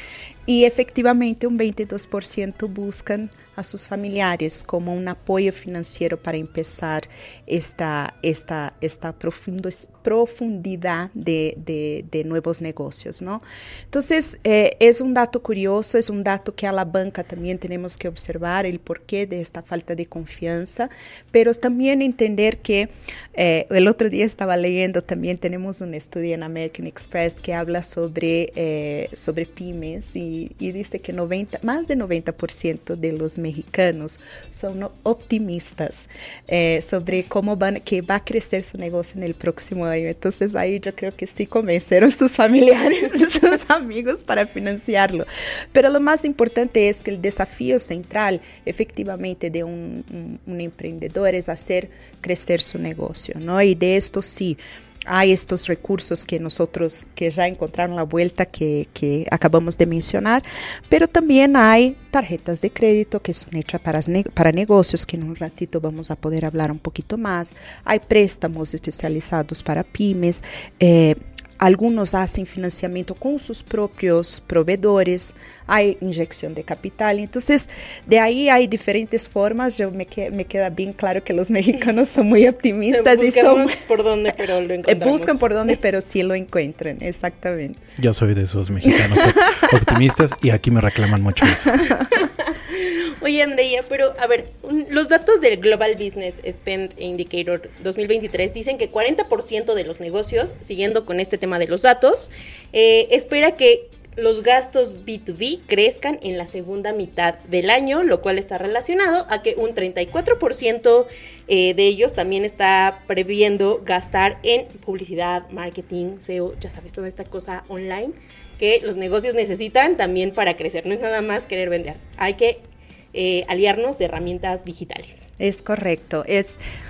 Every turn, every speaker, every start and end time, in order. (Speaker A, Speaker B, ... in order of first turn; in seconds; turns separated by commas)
Speaker A: 0.5-83.8, Speaker B: 82.9-85.7, Speaker A: 84.8-87.8, Speaker C: 88.0-92.1, Speaker A: 89.1-89.7, Speaker B: 92.1-125.2, Speaker A: 125.4-126.6